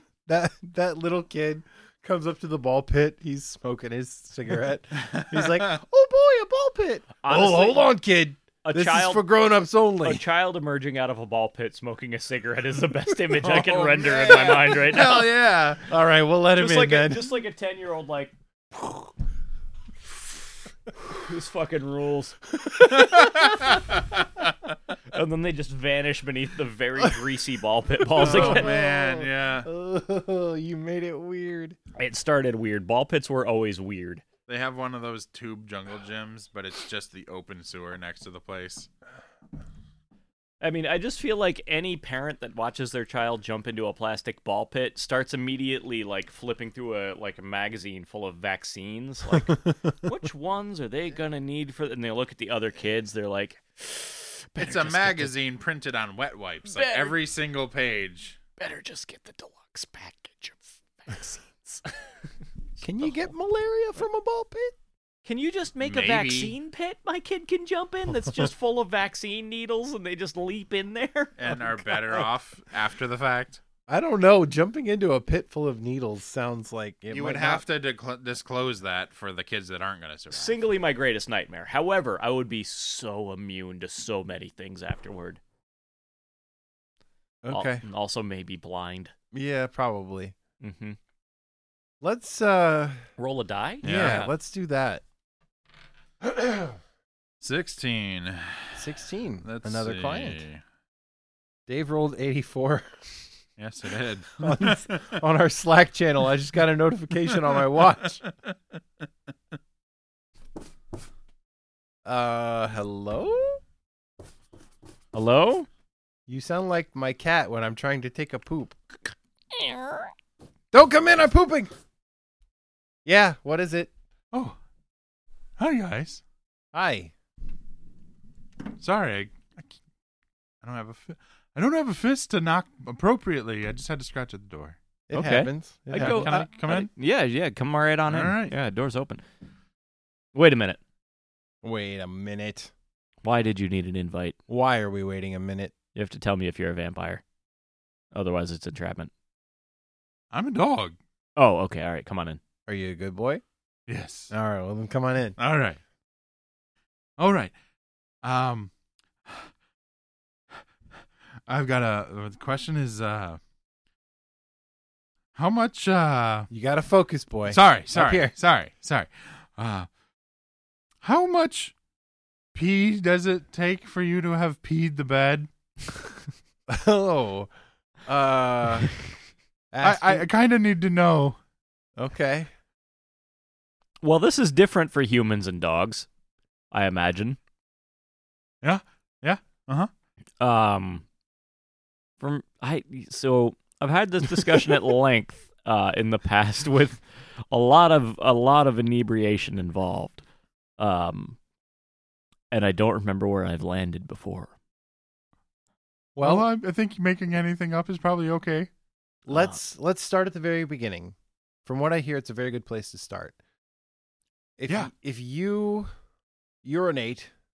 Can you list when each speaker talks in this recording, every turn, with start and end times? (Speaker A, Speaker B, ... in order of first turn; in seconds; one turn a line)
Speaker A: 0.3-10.2
Speaker B: 5.0-5.7
Speaker C: 7.2-7.9
Speaker C: 8.6-9.3
Speaker C: 10.0-15.3
Speaker B: 13.4-15.8
Speaker A: 15.0-17.3
Speaker C: 16.6-18.3
Speaker C: 21.0-22.4
Speaker B: 22.8-24.3
Speaker C: 25.1-28.7
Speaker A: 28.1-31.8
Speaker B: 28.2-29.7
Speaker C: 31.9-34.2
Speaker B: 34.5-38.9
Speaker C: 40.6-55.3
Speaker B: 54.6-58.4
Speaker C: 56.7-57.1
Speaker C: 58.6-61.9
Speaker A: 62.8-64.8
Speaker C: 65.2-72.3
Speaker B: 65.8-66.5
Speaker B: 71.4-73.6
Speaker A: 73.9-77.6
Speaker B: 77.1-80.6
Speaker C: 80.3-85.4
Speaker A: 87.4-87.8
Speaker C: 87.5-89.1
Speaker A: 89.3-90.3
Speaker C: 90.6-91.0
Speaker A: 92.0-93.0
Speaker C: 93.2-94.3
Speaker B: 93.8-94.3
Speaker A: 93.8-95.0
Speaker B: 97.4-98.9
Speaker A: 98.8-100.4
Speaker B: 99.5-100.6
Speaker A: 101.7-103.1
Speaker B: 103.6-105.2
Speaker A: 104.4-108.2
Speaker B: 108.2-108.5
Speaker A: 112.0-113.6
Speaker C: 115.1-115.7
Speaker A: 116.3-118.8
Speaker A: 120.7-121.7
Speaker A: 123.0-123.9
Speaker B: 125.6-126.2
Speaker A: 126.7-127.1
Speaker B: 128.8-129.7
Speaker B: 130.6-134.8
Speaker A: 135.1-136.5
Speaker C: 135.1-139.2
Speaker B: 135.9-136.9
Speaker B: 138.1-138.5
Speaker C: 140.3-140.8
Speaker A: 141.6-142.7
Speaker C: 143.2-144.4
Speaker A: 144.5-145.7
Speaker C: 145.9-147.2
Speaker C: 148.1-149.1
Speaker B: 150.3-151.0
Speaker C: 151.4-152.4
Speaker A: 152.7-153.4
Speaker B: 153.9-154.3
Speaker A: 154.3-155.4
Speaker B: 155.4-155.8
Speaker B: 157.2-157.5
Speaker B: 158.2-158.7
Speaker B: 161.5-163.4
Speaker B: 165.4-166.5
Speaker A: 166.5-168.3
Speaker B: 167.5-169.9
Speaker B: 171.0-171.7
Speaker B: 172.5-175.5
Speaker A: 176.7-177.5
Speaker A: 178.1-178.9
Speaker A: 179.7-180.3
Speaker B: 179.8-181.4
Speaker A: 182.0-182.5
Speaker C: 184.0-186.1
Speaker C: 186.7-187.4
Speaker B: 188.6-189.9
Speaker C: 190.4-191.0
Speaker C: 192.2-200.2
Speaker C: 200.8-201.4
Speaker C: 202.5-204.5
Speaker A: 206.2-206.5
Speaker B: 206.2-208.7
Speaker A: 209.3-213.4
Speaker C: 209.3-209.6
Speaker A: 214.6-215.9
Speaker A: 216.6-217.3